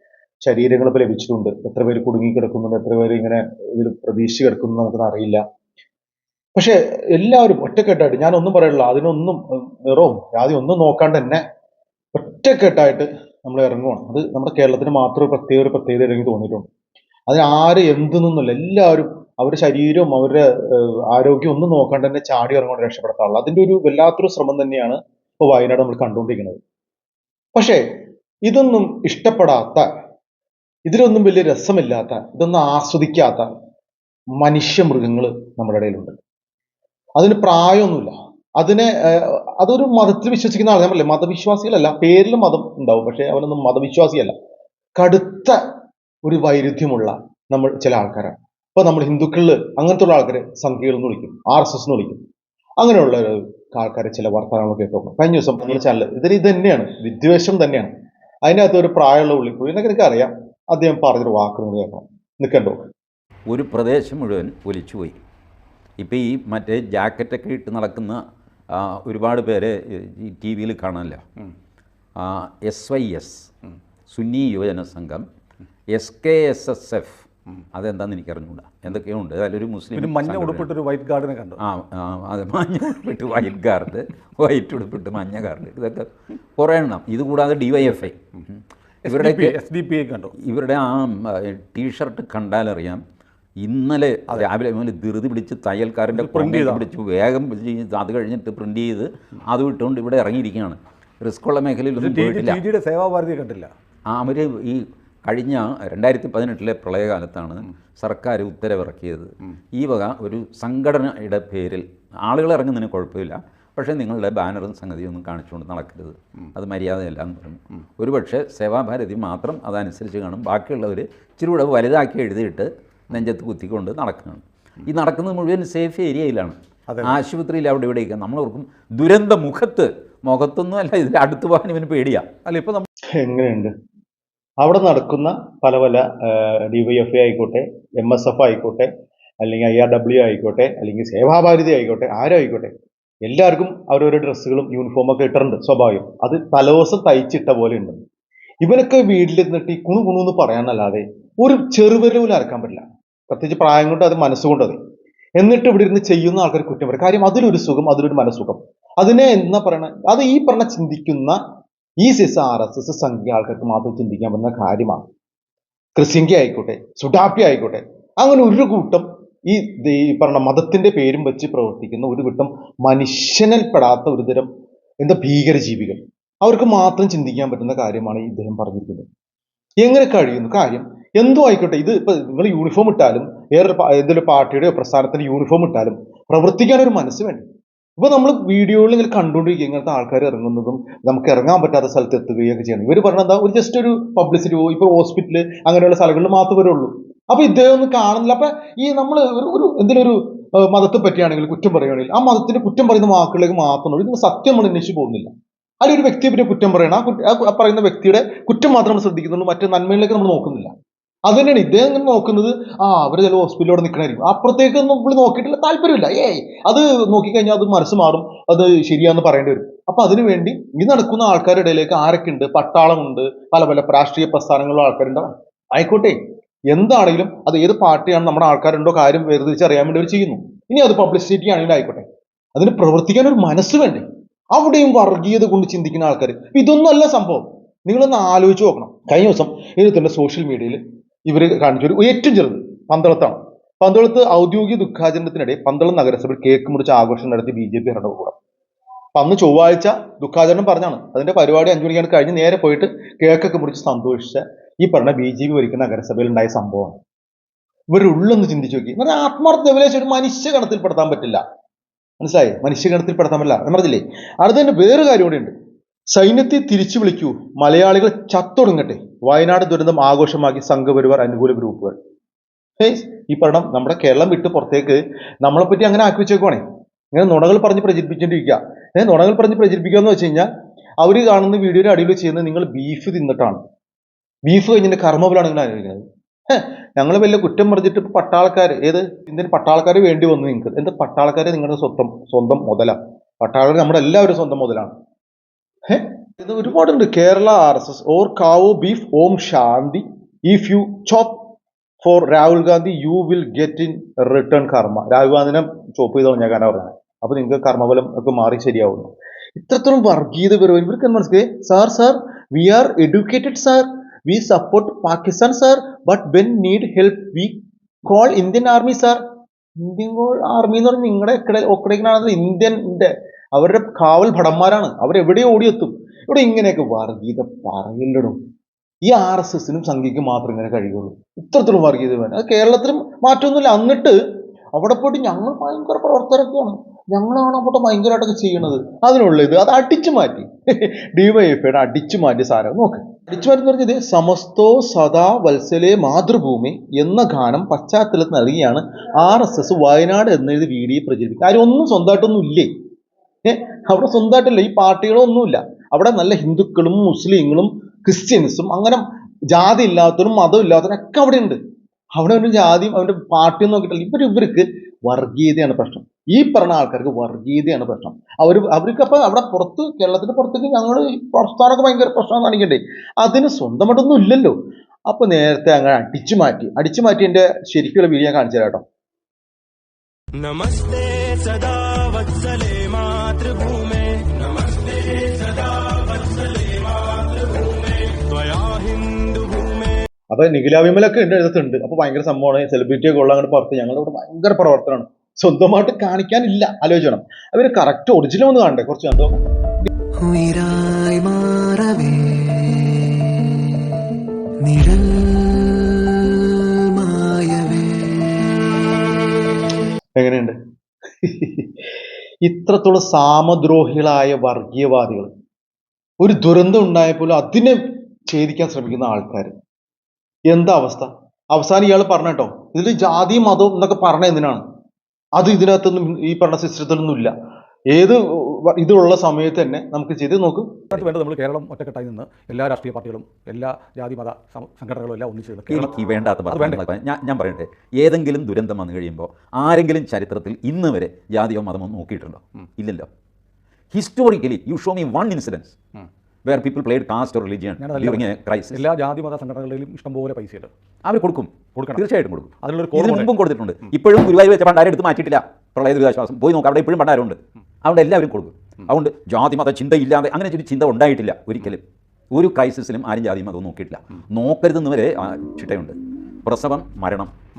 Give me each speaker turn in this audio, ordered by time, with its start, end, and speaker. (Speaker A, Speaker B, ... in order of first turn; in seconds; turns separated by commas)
Speaker A: 0.4-5.4, Speaker A: 6.5-11.4, Speaker A: 12.1-16.7, Speaker A: 17.3-26.6, Speaker A: 27.5-27.8, Speaker A: 28.4-29.9, Speaker A: 30.9-33.5, Speaker A: 34.4-36.1, Speaker A: 37.2-44.3, Speaker A: 45.0-45.6, Speaker A: 46.2-52.2, Speaker A: 52.8-57.9, Speaker A: 58.5-62.8, Speaker B: 63.5-65.2, Speaker B: 66.0-68.2, Speaker B: 68.7-71.2, Speaker B: 72.2-73.5, Speaker B: 74.1-75.2, Speaker B: 75.9-77.2, Speaker B: 77.7-80.7, Speaker C: 79.9-81.6, Speaker B: 81.6-86.0, Speaker B: 86.6-89.6, Speaker C: 89.0-90.3, Speaker B: 90.3-93.0, Speaker B: 93.6-102.6, Speaker C: 96.1-96.9, Speaker C: 102.0-103.7, Speaker B: 104.1-132.2, Speaker C: 126.9-127.1, Speaker C: 132.4-132.8, Speaker A: 133.2-133.7, Speaker A: 134.6-138.9, Speaker A: 139.4-142.7, Speaker A: 143.2-148.0, Speaker A: 148.6-154.8, Speaker A: 155.4-161.4, Speaker A: 162.0-165.0, Speaker A: 165.9-174.5, Speaker A: 175.0-179.1, Speaker A: 179.8-187.4, Speaker A: 188.0-205.3, Speaker A: 205.8-210.7, Speaker A: 211.3-226.2, Speaker A: 226.7-232.0, Speaker A: 232.6-248.3, Speaker A: 249.1-257.0, Speaker A: 257.9-261.4, Speaker A: 262.2-265.5, Speaker A: 266.1-271.9, Speaker A: 272.8-276.6, Speaker A: 277.1-280.5, Speaker A: 281.0-283.6, Speaker A: 284.4-294.9, Speaker A: 295.9-301.4, Speaker A: 302.0-319.2, Speaker A: 319.8-328.4, Speaker A: 329.0-334.2, Speaker A: 334.7-352.7, Speaker A: 353.4-361.6, Speaker A: 362.1-374.6, Speaker A: 375.1-378.8, Speaker D: 380.4-389.9, Speaker A: 390.3-399.4, Speaker E: 400.2-403.9, Speaker E: 404.6-408.7, Speaker A: 410.2-410.6, Speaker A: 411.2-411.7, Speaker A: 412.4-415.3, Speaker A: 416.2-419.5, Speaker A: 420.5-424.6, Speaker A: 425.4-427.3, Speaker A: 427.9-430.8, Speaker C: 430.9-435.9, Speaker B: 435.7-443.1, Speaker C: 436.5-436.8, Speaker B: 443.9-445.8, Speaker B: 446.4-448.9, Speaker C: 447.8-450.7, Speaker B: 451.0-461.8, Speaker C: 451.7-452.0, Speaker C: 452.6-453.3, Speaker B: 462.3-467.3